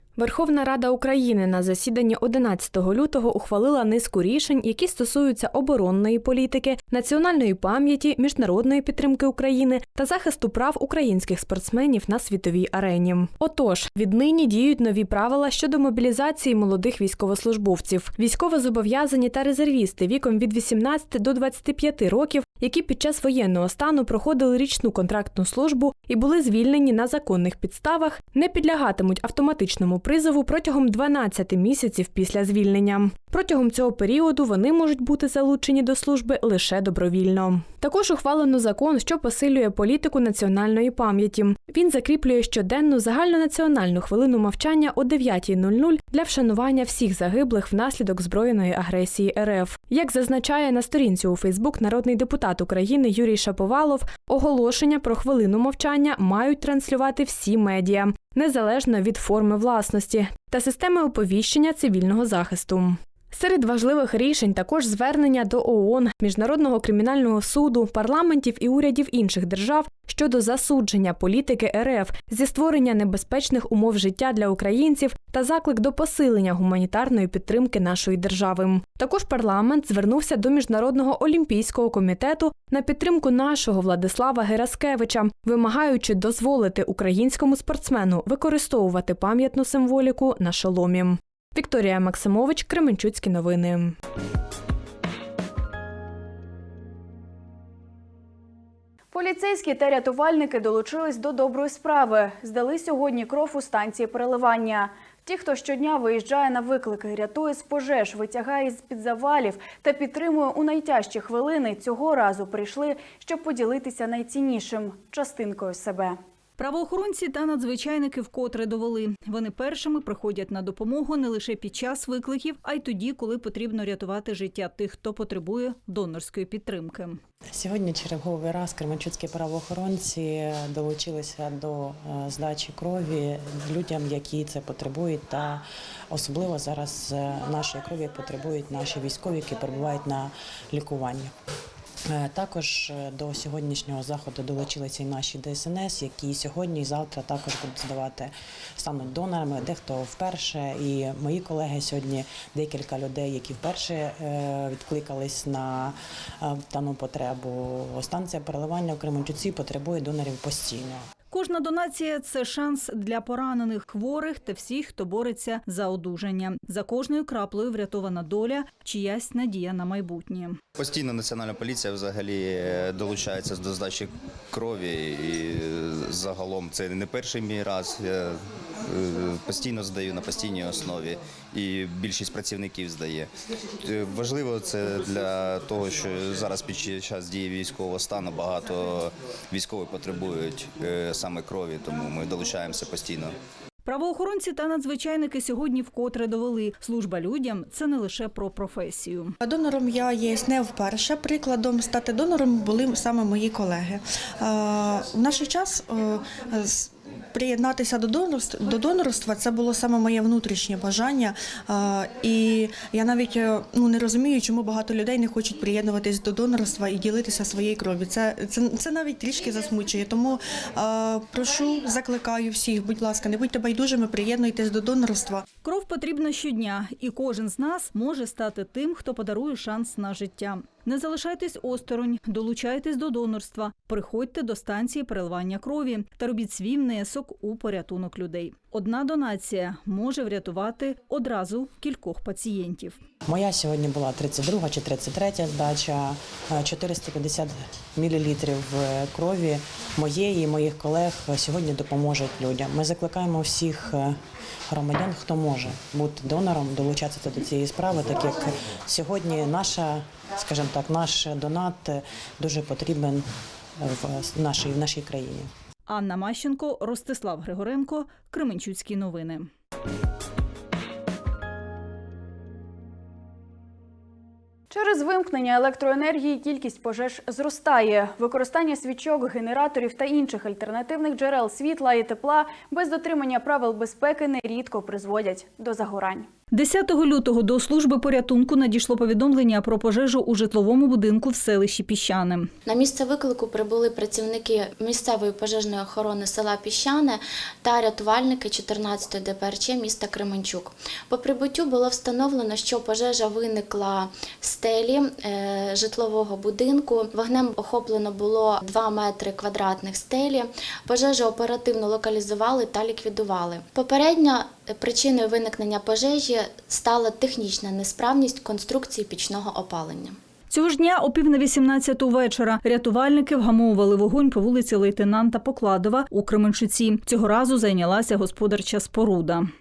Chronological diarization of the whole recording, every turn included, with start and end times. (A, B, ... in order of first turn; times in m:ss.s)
0:00.2-1:34.0 A
1:39.1-1:56.2 B
1:56.6-2:07.2 C
2:07.5-2:21.3 D
2:22.1-2:41.1 D
2:41.3-2:50.6 C
2:50.8-3:03.3 E
3:03.8-3:13.4 E
3:13.8-3:19.4 C
3:19.4-3:45.4 F
3:45.6-4:03.0 C
4:03.2-4:25.5 D
4:25.9-4:29.5 C
4:34.7-4:46.3 B
4:46.5-4:52.5 C
4:52.7-5:20.2 G
5:20.5-5:29.5 C